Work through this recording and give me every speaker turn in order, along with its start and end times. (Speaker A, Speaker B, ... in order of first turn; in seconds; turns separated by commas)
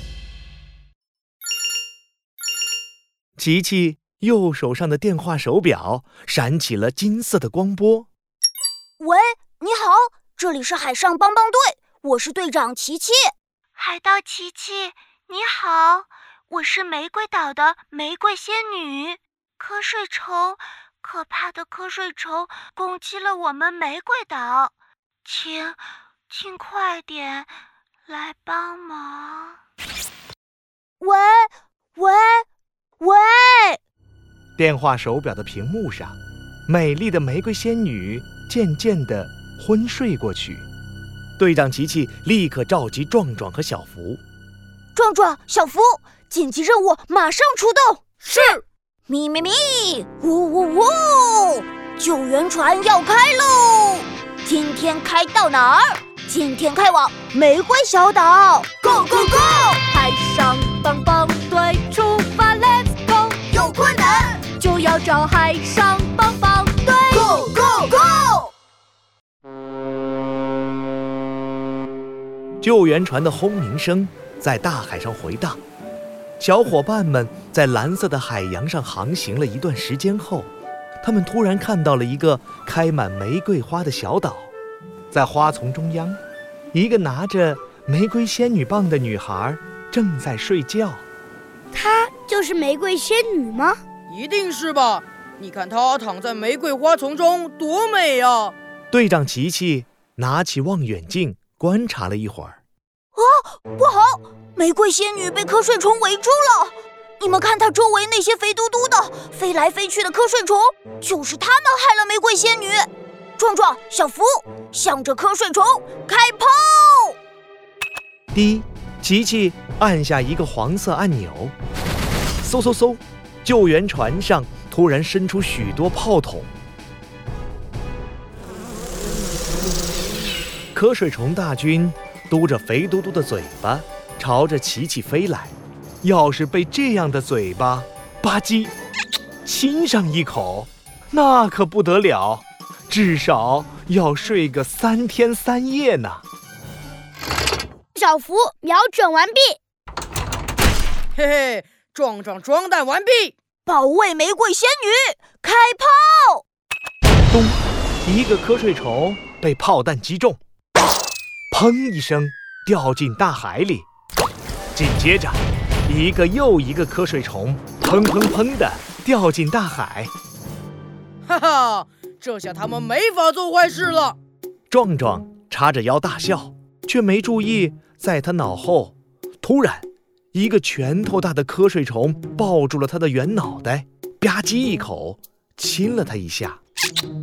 Speaker A: 3.4-8.1, Speaker B: 9.0-13.3, Speaker C: 13.8-24.7, Speaker C: 25.2-27.5, Speaker C: 28.1-29.6, Speaker B: 31.0-32.5, Speaker B: 33.0-33.8, Speaker A: 34.6-36.2, Speaker A: 36.7-40.7, Speaker A: 41.4-44.2, Speaker B: 45.0-59.8, Speaker D: 59.8-63.2, Speaker B: 63.5-64.5, Speaker D: 64.5-66.6, Speaker B: 66.8-68.5, Speaker A: 72.6-75.6, Speaker A: 76.4-80.5, Speaker A: 81.0-84.5, Speaker A: 85.1-86.2, Speaker A: 86.7-91.0, Speaker E: 91.7-93.8, Speaker F: 94.1-98.5, Speaker A: 98.9-102.6, Speaker B: 103.2-117.2, Speaker A: 118.3-121.5, Speaker A: 122.4-126.5, Speaker A: 130.7-138.7, Speaker A: 139.4-146.2, Speaker E: 147.9-149.6, Speaker F: 151.2-153.3, Speaker B: 153.7-156.4, Speaker A: 157.3-160.4, Speaker A: 161.5-163.9, Speaker A: 164.8-170.1, Speaker F: 171.3-174.2, Speaker A: 174.7-186.6